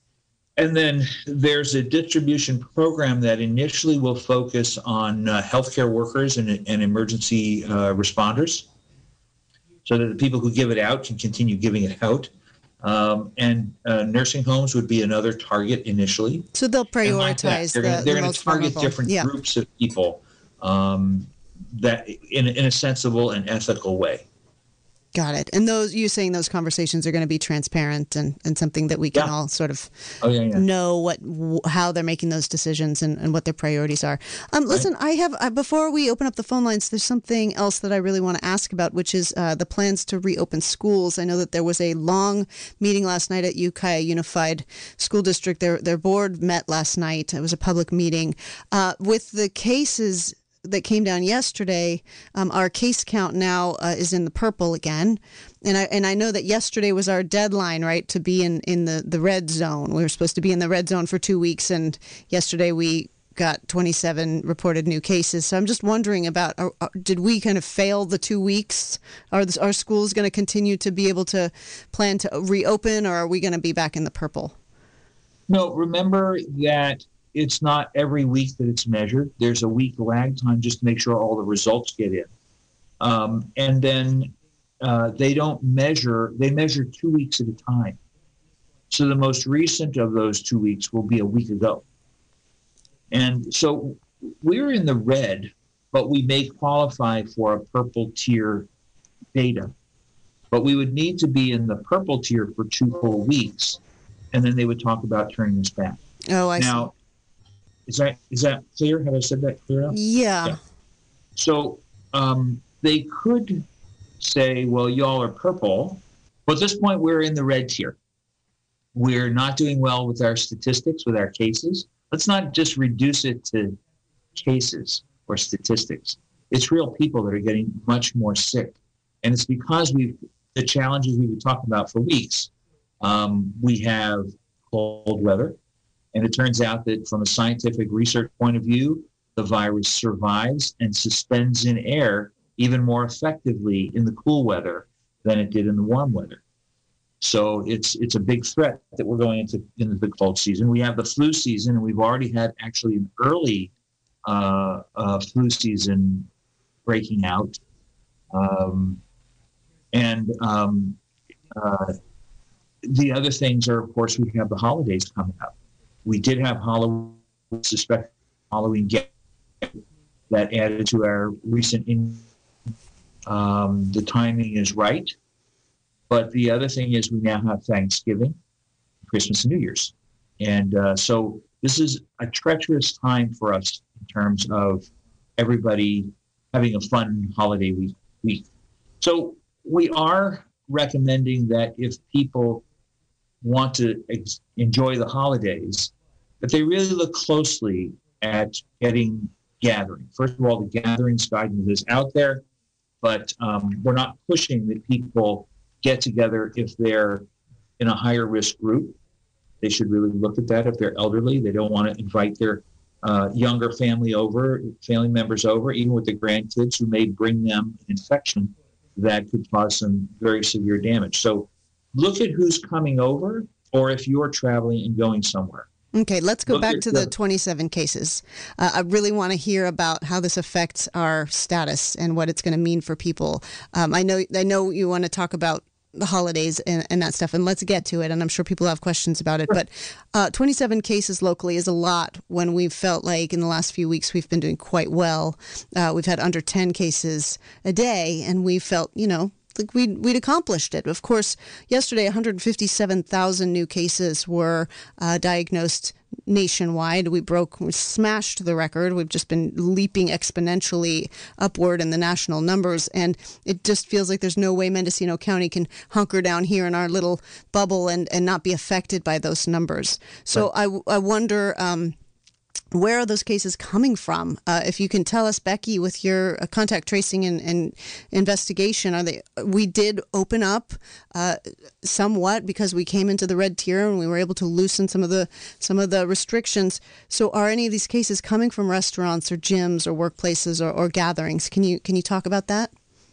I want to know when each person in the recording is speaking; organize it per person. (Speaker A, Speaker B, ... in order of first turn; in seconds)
Speaker A: 0.6-8.7, 9.8-12.3, 12.8-16.5, 17.0-24.2, 30.2-30.6, 75.5-82.3, 83.0-88.0, 88.9-91.8, 93.1-98.7, 99.3-99.7, 100.5-103.8, 104.3-106.0, 106.5-106.9, 107.9-110.6, 111.3-113.6, 114.2-118.0, 118.9-123.8, 124.3-132.5, 133.0-135.6, 136.1-146.4, 147.2-153.7, 154.2-156.3, 156.8-157.6, 158.3-159.0, 159.9-161.0, 161.5-161.9, 162.8-165.5, 166.0-169.1, 170.3-172.2, 173.2-175.1, 176.1-178.4, 179.1-188.4, 189.0-192.6, 193.4-202.4, 203.0-207.3, 207.8-208.9, 209.6-225.7, 226.5-227.1
Speaker B: 16.5-19.3, 25.1-29.9, 30.5-74.5, 106.3-106.9, 109.9-110.6, 225.9-271.9, 272.7-292.7